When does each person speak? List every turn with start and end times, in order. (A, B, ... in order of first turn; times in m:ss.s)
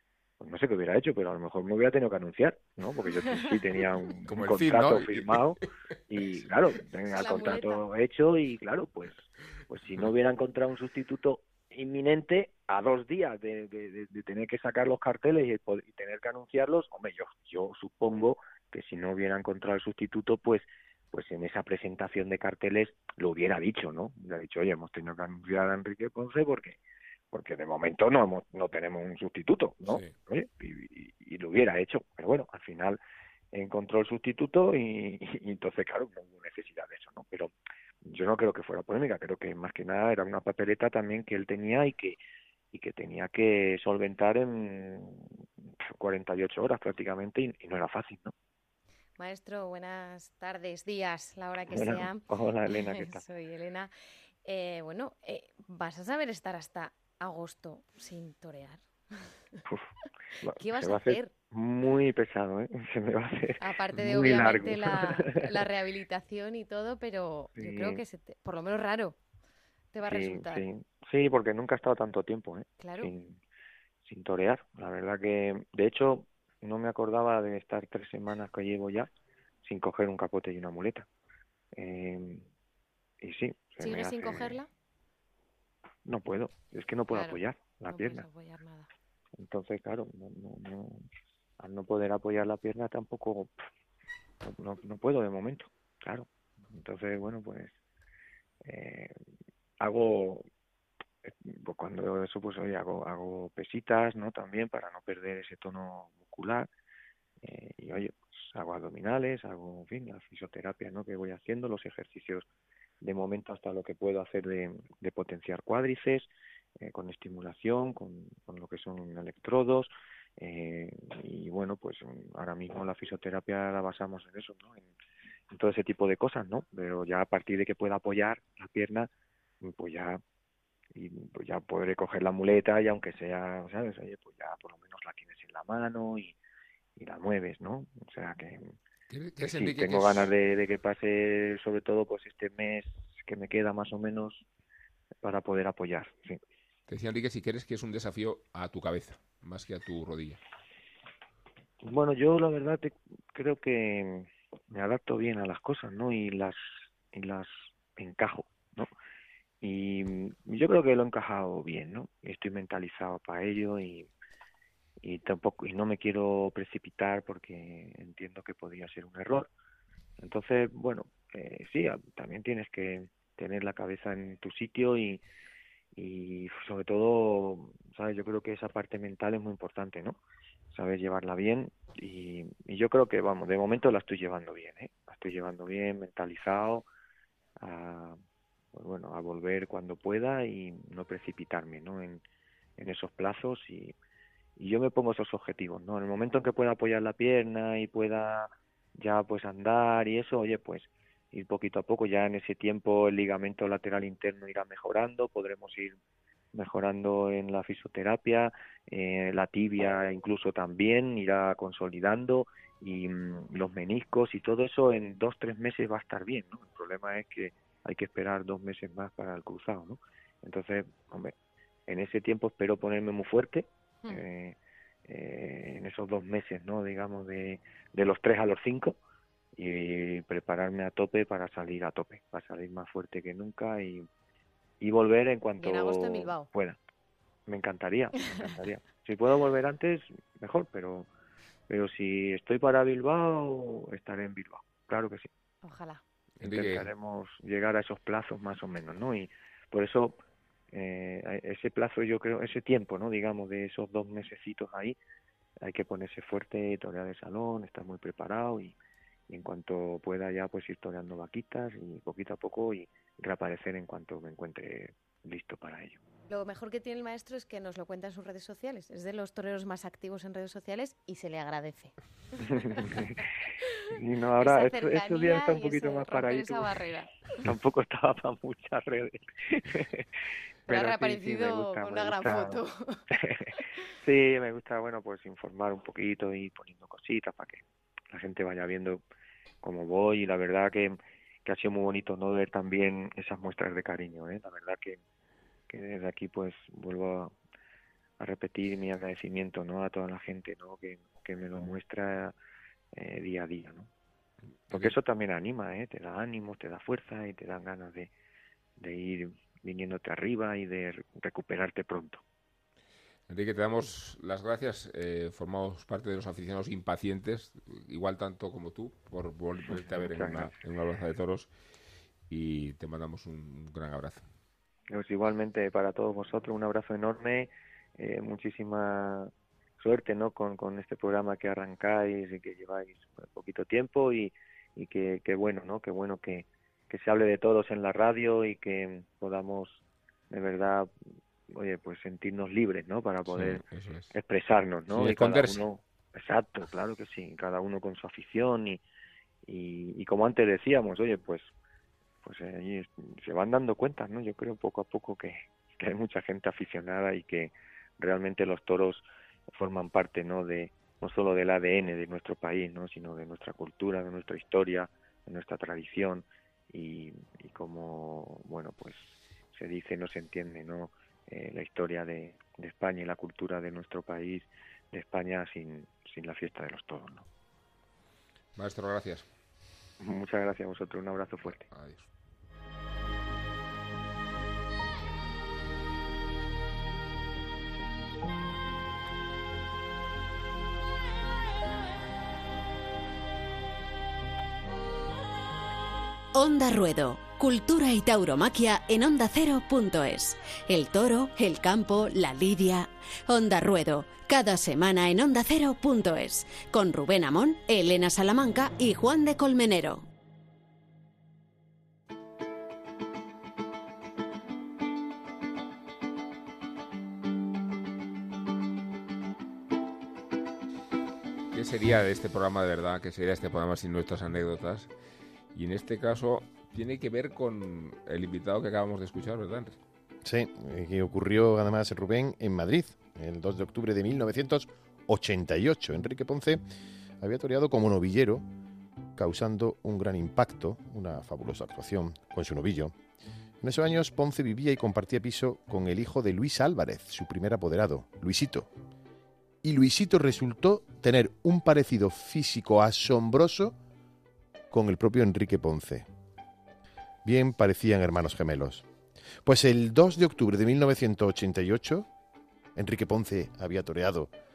0:00.4-0:26.8 A
0:04.3-0:05.5 B
0:07.1-0:07.8 C
0:27.3-0:33.0 A
0:29.8-0:30.1 B
0:33.5-0:37.5 A
0:38.0-0:42.2 A
0:42.7-0:45.4 A
0:46.0-0:48.3 A
0:49.2-0:53.9 C
0:51.7-0:53.2 A
0:54.4-0:59.6 C
0:59.6-0:59.9 A
1:00.4-1:05.5 A
1:00.6-1:01.3 C
1:03.6-1:09.2 C
1:07.6-1:08.0 A
1:09.9-1:10.6 C
1:10.1-1:13.4 A
1:12.8-1:13.1 C
1:14.0-1:19.1 A
1:19.6-1:21.1 A
1:21.8-1:22.4 A
1:23.2-1:24.6 A
1:23.8-1:24.7 C
1:26.0-1:28.2 A
1:27.1-1:28.9 C
1:29.4-1:31.1 A
1:31.6-1:33.5 A
1:34.4-1:37.7 A
1:38.6-1:39.1 A
1:39.8-1:40.4 A
1:41.2-1:46.7 A
1:47.4-1:52.4 A
1:53.0-1:56.3 A
1:56.8-2:04.9 A
2:05.5-2:09.1 A
2:09.6-2:10.2 A
2:10.9-2:16.4 A
2:17.0-2:18.7 A
2:19.1-2:20.3 B
2:19.4-2:24.4 A
2:25.2-2:26.4 A
2:26.9-2:30.4 B
2:31.8-2:36.6 A
2:37.1-2:38.9 A
2:39.6-2:44.1 A
2:45.0-2:49.5 A
2:50.2-2:55.2 A
2:56.0-3:00.2 A
3:00.7-3:06.8 A
3:07.6-3:08.2 A
3:08.7-3:12.2 A
3:12.8-3:13.9 A
3:14.6-3:26.0 A
3:26.5-3:41.3 A
3:41.9-3:44.6 A
3:45.1-3:49.0 A
3:49.6-3:54.1 A
3:54.8-3:56.8 A
3:55.6-3:56.5 C
3:57.5-4:01.1 A
3:58.2-3:58.5 C
4:01.7-4:05.3 A
4:05.6-4:06.0 C
4:06.4-4:06.9 B
4:06.4-4:10.2 A
4:10.7-4:15.0 A
4:15.6-4:18.8 A
4:19.3-4:26.0 A
4:26.3-4:31.9 C
4:32.4-4:33.2 A
4:32.5-4:33.1 C
4:33.9-4:36.8 A
4:34.4-4:37.1 C
4:37.4-4:40.0 A
4:40.7-4:42.6 A
4:40.7-4:43.0 C
4:43.1-4:47.6 A
4:48.1-4:49.0 A
4:49.6-4:55.0 A
4:55.7-4:57.3 A
4:58.2-5:02.3 A
5:02.9-5:03.9 A
5:04.7-5:05.0 B
5:04.7-5:08.1 A
5:08.8-5:12.2 A
5:13.3-5:21.5 B
5:19.8-5:20.6 A
5:22.3-5:24.2 B
5:24.9-5:40.9 A
5:41.5-5:48.8 A
5:43.3-5:44.1 B
5:44.9-5:45.6 B
5:49.4-5:51.5 A
5:52.2-6:17.2 A
6:18.5-6:19.3 B
6:20.0-6:21.6 A
6:21.7-6:22.1 B
6:36.3-6:50.0 D
7:01.5-7:04.9 B
7:05.5-7:09.8 B
7:10.2-7:16.6 E
7:17.2-7:18.4 E
7:19.2-7:22.9 E
7:23.6-7:28.7 E
7:29.6-7:33.8 E
7:34.7-7:36.1 E
7:37.2-7:38.8 E
7:39.4-7:42.1 E
7:42.8-7:44.3 E